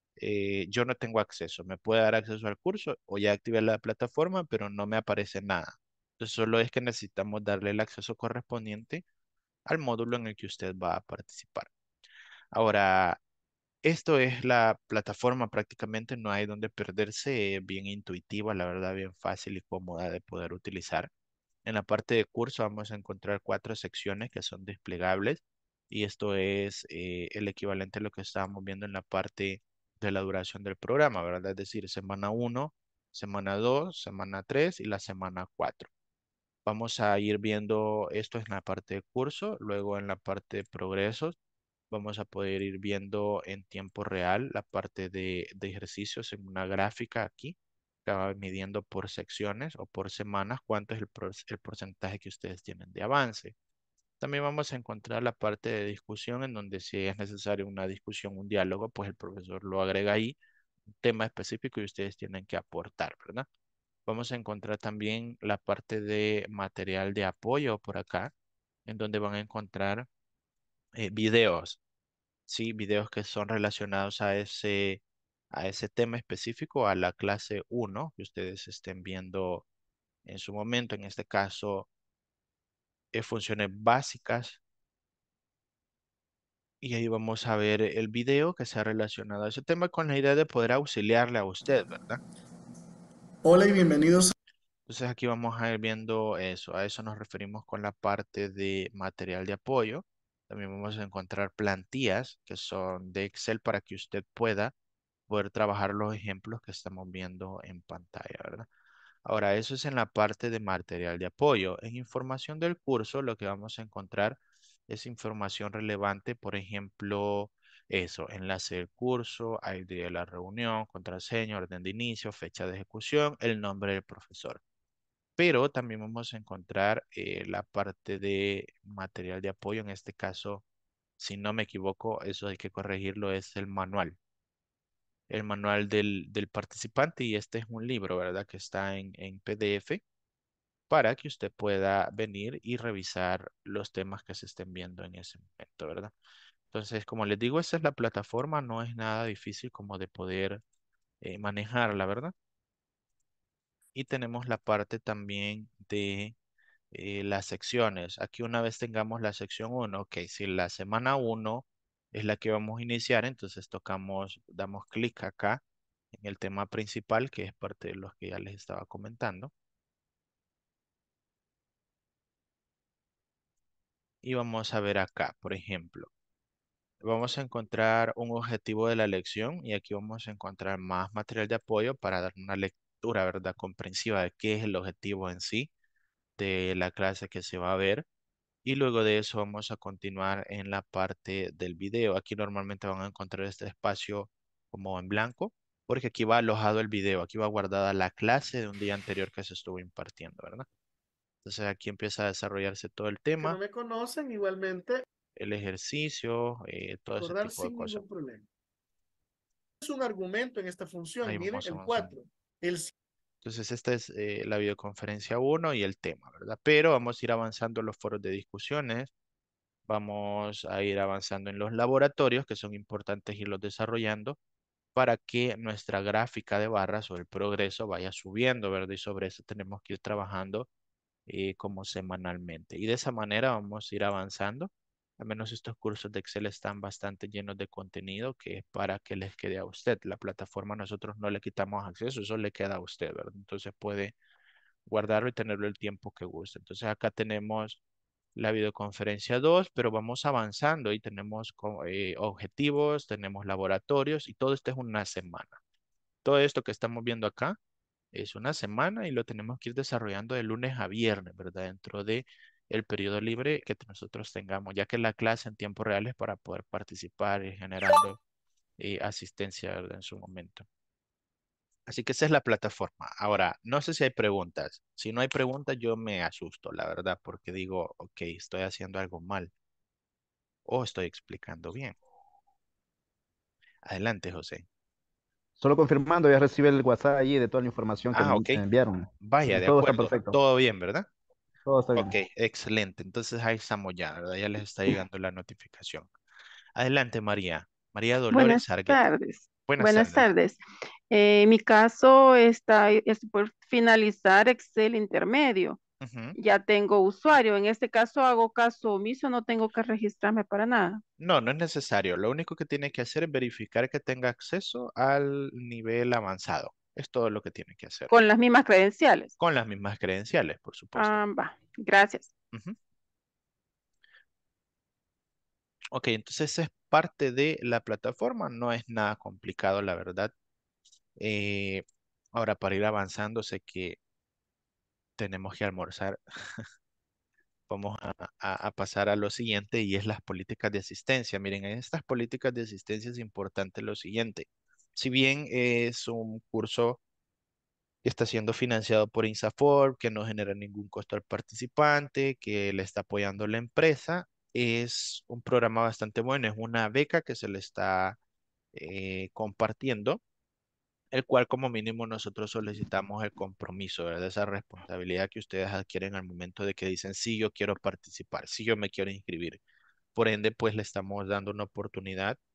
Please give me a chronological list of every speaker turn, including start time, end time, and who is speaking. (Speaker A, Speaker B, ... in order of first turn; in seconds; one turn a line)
Speaker A: 0.2-9.0
Speaker A: 9.7-11.7
Speaker A: 12.5-13.2
Speaker A: 13.8-21.1
Speaker A: 21.6-35.9
Speaker A: 36.6-41.4
Speaker A: 41.9-53.5
Speaker A: 54.2-60.4
Speaker A: 61.0-63.5
Speaker A: 64.1-68.3
Speaker A: 68.9-70.1
Speaker A: 71.0-71.8
Speaker A: 72.5-79.7
Speaker A: 80.2-81.9
Speaker A: 83.1-84.6
Speaker A: 86.8-92.2
Speaker B: 93.5-94.3
Speaker A: 94.9-104.7
Speaker A: 105.3-108.7
Speaker A: 109.2-124.6
Speaker A: 125.4-130.6
Speaker A: 131.2-134.2
Speaker A: 135.3-140.0
Speaker A: 140.9-146.1
Speaker A: 146.7-150.6
Speaker A: 151.2-152.3
Speaker A: 153.9-156.3
Speaker A: 156.9-165.6
Speaker A: 166.1-169.5
Speaker A: 174.2-176.1
Speaker A: 177.0-185.7
Speaker A: 186.4-188.1
Speaker A: 188.7-200.7
Speaker A: 201.4-203.6
Speaker B: 203.4-205.0
Speaker A: 205.4-208.0
Speaker B: 207.2-208.4
Speaker B: 209.8-212.9
Speaker A: 211.2-212.2
Speaker A: 213.4-219.1
Speaker A: 219.9-224.4
Speaker A: 224.9-230.7
Speaker A: 231.3-244.1
Speaker A: 244.9-247.8
Speaker A: 248.4-255.6
Speaker A: 256.2-257.6
Speaker A: 258.1-268.2
Speaker A: 268.8-270.7
Speaker A: 271.9-279.5
Speaker A: 280.7-282.0
Speaker A: 283.8-284.6
Speaker C: 285.6-290.4
Speaker A: 288.1-288.6
Speaker A: 289.2-291.1
Speaker C: 291.7-292.1
Speaker A: 292.0-296.1
Speaker A: 296.8-299.1
Speaker D: 298.3-305.8
Speaker A: 299.7-300.3
Speaker A: 306.0-306.4
Speaker D: 306.4-311.0
Speaker A: 311.2-318.1
Speaker D: 318.1-319.3
Speaker A: 319.4-321.2
Speaker D: 321.0-322.3
Speaker A: 322.5-322.8
Speaker A: 325.9-330.3
Speaker A: 331.2-334.0
Speaker A: 335.2-336.7
Speaker A: 337.7-347.0
Speaker A: 348.0-358.2
Speaker A: 358.7-360.2
Speaker A: 361.1-369.6
Speaker A: 370.1-372.4